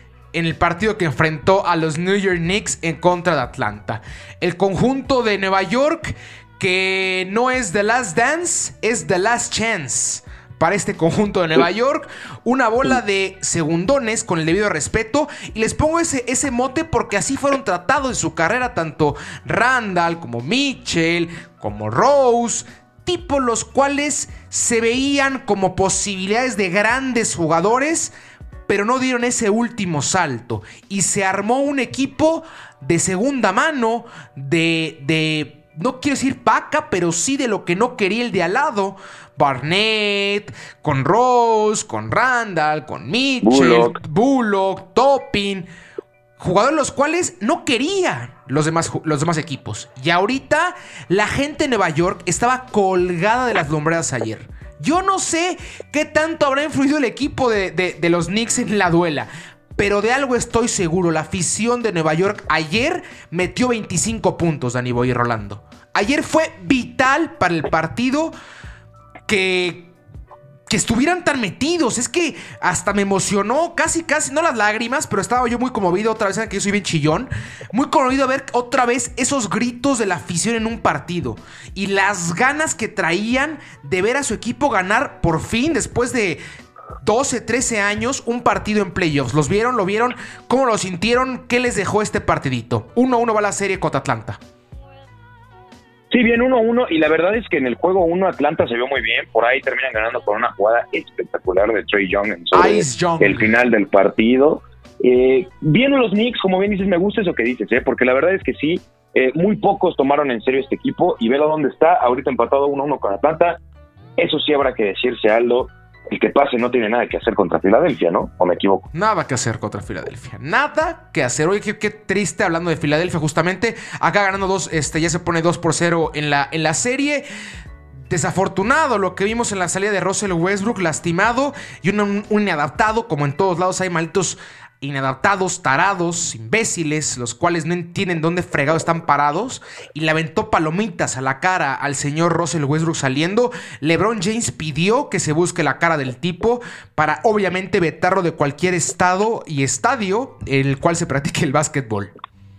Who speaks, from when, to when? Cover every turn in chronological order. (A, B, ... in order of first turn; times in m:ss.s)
0:00.3-0:28.1 A
0:28.7-0:45.7 A
0:43.4-0:44.0 B
0:46.4-1:08.3 A
1:09.3-1:09.9 A
1:10.7-1:26.4 A
1:27.0-1:34.4 A
1:36.1-1:53.6 B
1:42.5-1:43.5 A
1:54.2-1:58.9 B
1:58.9-2:07.2 A
2:08.1-2:32.1 A